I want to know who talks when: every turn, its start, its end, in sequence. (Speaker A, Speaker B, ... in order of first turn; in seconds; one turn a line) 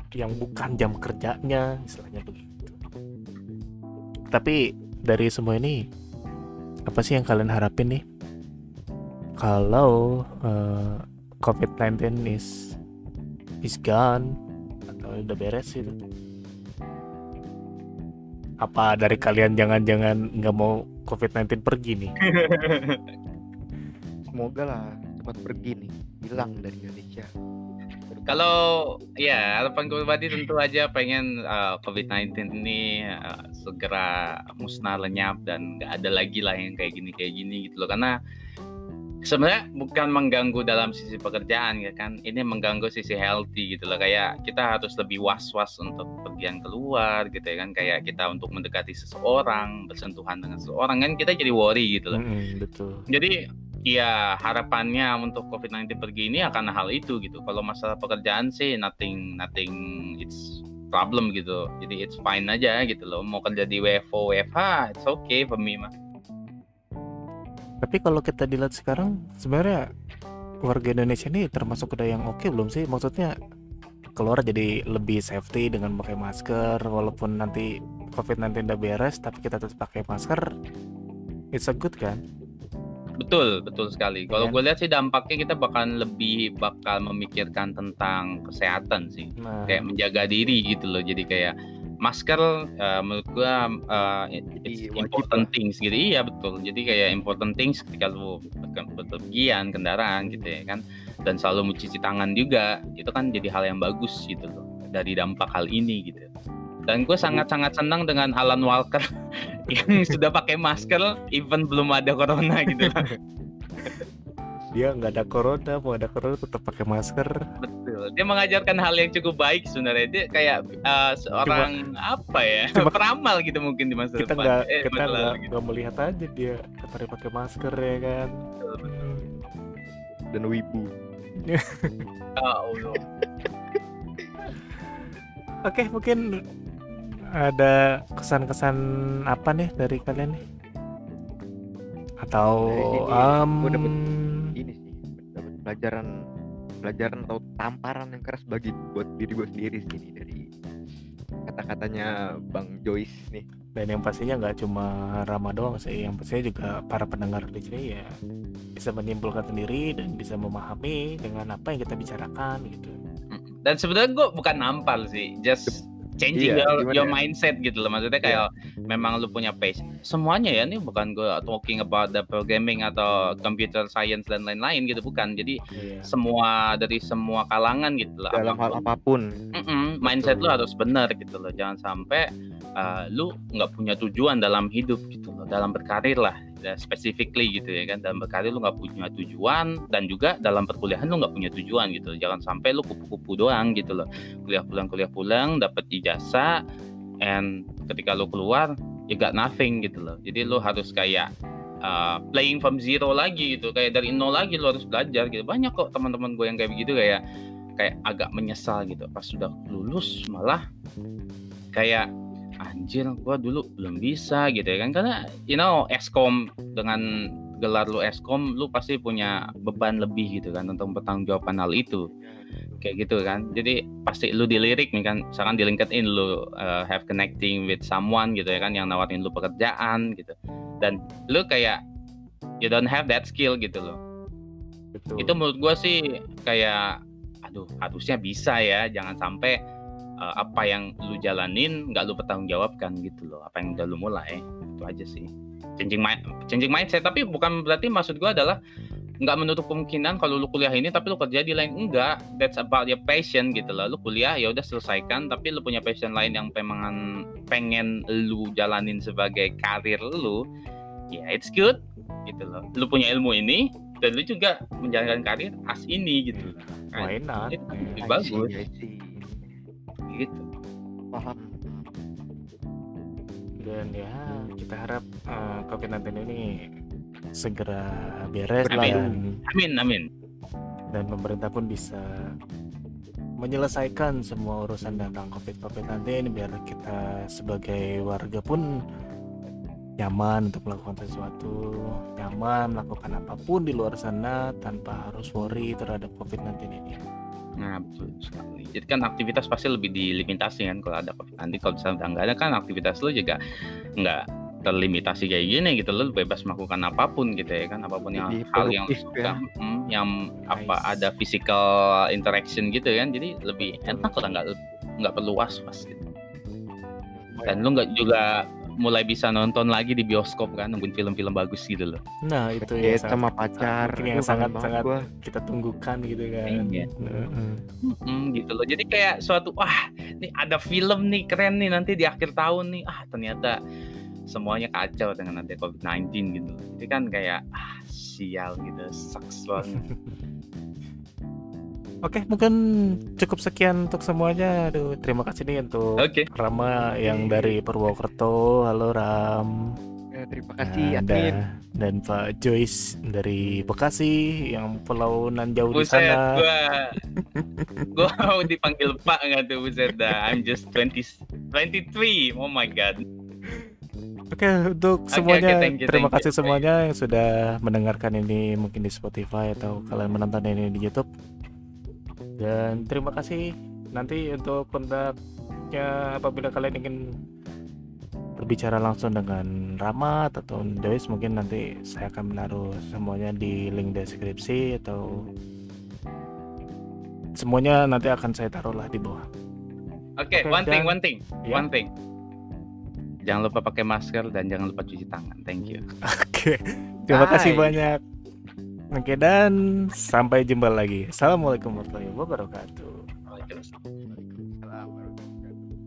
Speaker A: 0.1-2.8
Speaker A: 4.3-5.8
Speaker A: 6.9-8.0
Speaker A: 9.4-12.7
Speaker A: 13.6-14.3
Speaker A: 14.9-15.9
Speaker A: 18.6-22.1
Speaker B: 19.1-19.4
Speaker C: 22.2-23.0
Speaker B: 24.3-27.3
Speaker B: 28.1-28.4
Speaker C: 28.3-38.1
Speaker C: 39.2-52.2
Speaker A: 52.1-53.0
Speaker C: 53.1-53.4
Speaker C: 53.9-65.9
Speaker A: 67.8-69.8
Speaker A: 70.7-73.3
Speaker A: 74.2-80.4
Speaker A: 81.5-82.2
Speaker C: 83.2-106.3
Speaker A: 84.3-84.6
Speaker A: 89.4-89.8
Speaker B: 94.6-95.5
Speaker C: 106.9-113.1
Speaker A: 112.7-113.1
Speaker A: 114.7-117.3
Speaker C: 117.6-125.5
Speaker A: 121.4-121.7
Speaker A: 124.2-128.3
Speaker C: 128.6-129.2
Speaker A: 128.8-129.2
Speaker B: 130.3-130.9
Speaker A: 131.4-132.1
Speaker C: 132.4-133.0
Speaker A: 134.8-135.1
Speaker A: 135.7-136.2
Speaker A: 136.9-138.8
Speaker A: 139.3-140.4
Speaker A: 142.2-144.5
Speaker B: 142.6-143.9
Speaker B: 144.6-146.1
Speaker B: 146.8-150.5
Speaker B: 151.5-153.4
Speaker A: 153.8-158.1
Speaker A: 158.8-162.9
Speaker C: 163.3-175.6
Speaker B: 166.3-167.2
Speaker A: 175.8-176.1
Speaker C: 176.1-178.8
Speaker B: 178.3-179.3
Speaker C: 179.5-182.3
Speaker B: 180.1-180.4
Speaker C: 182.8-196.6
Speaker C: 197.2-201.3
Speaker C: 201.8-207.2
Speaker C: 207.8-210.6
Speaker C: 211.7-212.1
Speaker C: 212.6-217.0
Speaker C: 217.6-222.1
Speaker B: 222.1-222.8
Speaker C: 222.8-231.8
Speaker C: 232.6-234.0
Speaker A: 234.9-235.3
Speaker C: 235.2-236.9
Speaker C: 237.4-239.6
Speaker C: 240.2-248.6
Speaker C: 249.2-257.0
Speaker C: 257.5-260.4
Speaker C: 261.1-268.5
Speaker A: 266.3-268.0
Speaker B: 267.9-269.4
Speaker C: 270.1-270.5
Speaker B: 271.1-271.9
Speaker A: 273.6-276.4
Speaker A: 277.4-279.3
Speaker B: 278.7-279.2
Speaker C: 278.7-280.1
Speaker A: 280.9-282.0
Speaker A: 283.4-288.7
Speaker A: 290.0-291.6
Speaker A: 292.1-297.0
Speaker C: 297.6-303.4
Speaker C: 304.0-316.0
Speaker B: 308.0-309.4
Speaker A: 310.4-311.1
Speaker A: 313.6-314.2
Speaker B: 317.1-317.6
Speaker C: 317.4-322.0
Speaker A: 322.2-327.6
Speaker B: 322.6-325.1
Speaker C: 326.4-326.9
Speaker C: 327.8-333.6
Speaker C: 334.3-339.8
Speaker A: 339.8-340.1
Speaker A: 342.0-342.5
Speaker A: 343.2-349.6
Speaker C: 346.0-346.2
Speaker B: 347.0-347.9
Speaker B: 350.1-351.4
Speaker A: 350.6-356.4
Speaker C: 355.7-357.0
Speaker A: 357.1-357.9
Speaker C: 357.9-363.0
Speaker A: 363.4-363.7
Speaker A: 364.3-371.1
Speaker C: 365.1-366.6
Speaker A: 372.4-375.1
Speaker A: 375.7-377.0
Speaker A: 378.4-385.1
Speaker A: 387.4-389.2
Speaker C: 390.2-391.9
Speaker A: 390.3-391.6
Speaker C: 393.2-395.8
Speaker A: 396.0-398.0
Speaker C: 397.1-397.7
Speaker A: 398.9-402.9
Speaker C: 403.3-403.7
Speaker B: 404.1-405.7